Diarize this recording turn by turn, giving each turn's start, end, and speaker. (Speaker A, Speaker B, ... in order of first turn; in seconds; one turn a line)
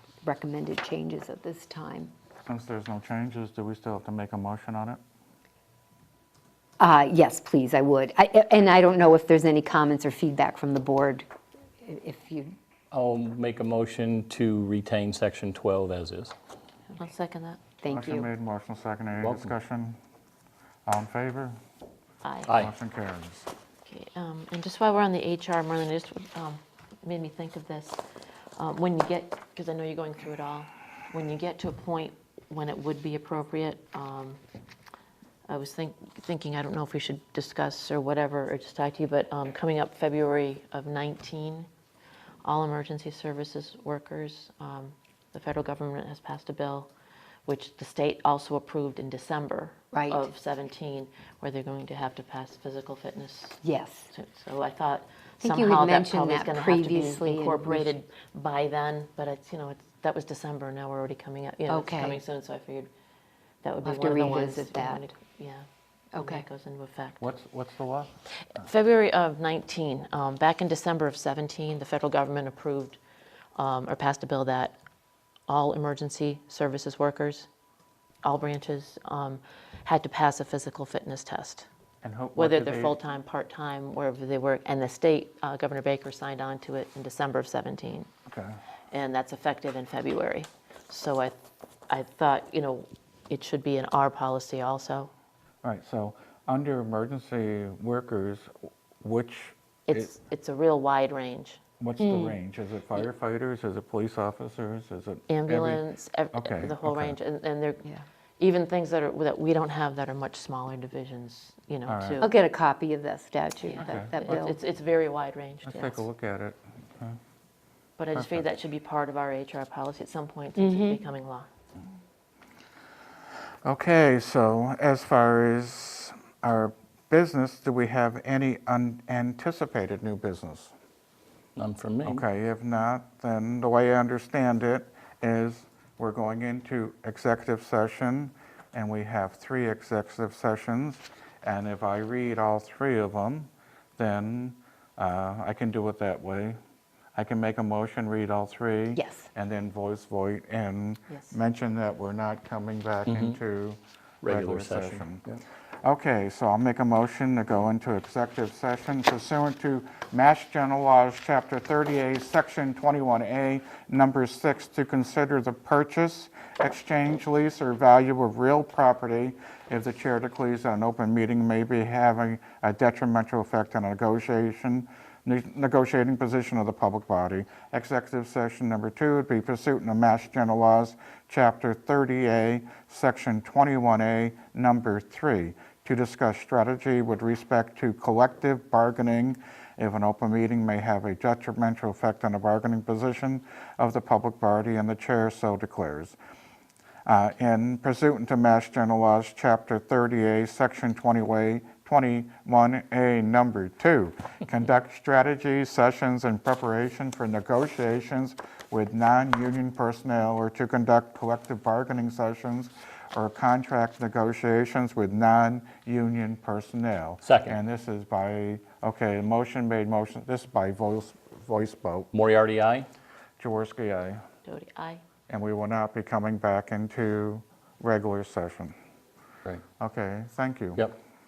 Speaker A: 0.2-2.1
Speaker B: 2.5-5.0
Speaker A: 6.8-11.3
Speaker A: 11.8-12.6
Speaker C: 12.9-16.3
Speaker D: 17.0-17.6
Speaker A: 17.8-18.3
Speaker B: 17.9-20.0
Speaker C: 19.2-19.5
Speaker B: 20.9-21.6
Speaker D: 22.2-22.5
Speaker C: 22.5-22.7
Speaker B: 22.5-23.5
Speaker D: 23.9-28.0
Speaker D: 28.6-34.4
Speaker D: 35.5-41.7
Speaker D: 42.4-46.9
Speaker D: 47.5-53.6
Speaker A: 49.9-50.3
Speaker A: 53.6-54.1
Speaker D: 54.1-62.9
Speaker A: 55.4-58.0
Speaker A: 61.7-62.2
Speaker D: 63.6-65.7
Speaker A: 63.8-65.1
Speaker A: 66.1-66.5
Speaker D: 66.2-67.2
Speaker B: 67.2-68.1
Speaker D: 68.6-73.0
Speaker D: 73.6-74.8
Speaker D: 75.5-77.5
Speaker D: 78.2-81.7
Speaker B: 82.0-83.0
Speaker D: 82.3-88.1
Speaker B: 88.3-88.6
Speaker D: 88.9-91.4
Speaker D: 91.9-95.1
Speaker B: 95.6-100.1
Speaker D: 99.9-101.6
Speaker B: 101.8-107.2
Speaker D: 105.3-112.3
Speaker B: 111.9-112.2
Speaker A: 112.2-114.6
Speaker D: 113.7-116.1
Speaker B: 113.8-114.2
Speaker B: 115.7-117.2
Speaker D: 118.0-121.5
Speaker B: 118.1-118.4
Speaker A: 120.6-121.0
Speaker B: 123.7-130.7
Speaker C: 131.6-132.2
Speaker B: 132.0-146.6
Speaker B: 147.2-155.2
Speaker A: 148.9-149.3
Speaker D: 151.1-151.4
Speaker C: 153.1-153.4
Speaker C: 154.2-155.4
Speaker B: 155.8-196.2
Speaker B: 197.1-222.1
Speaker C: 217.2-217.6
Speaker C: 222.1-222.9
Speaker B: 223.4-224.2
Speaker D: 224.4-225.0
Speaker B: 225.3-228.8
Speaker B: 229.8-230.9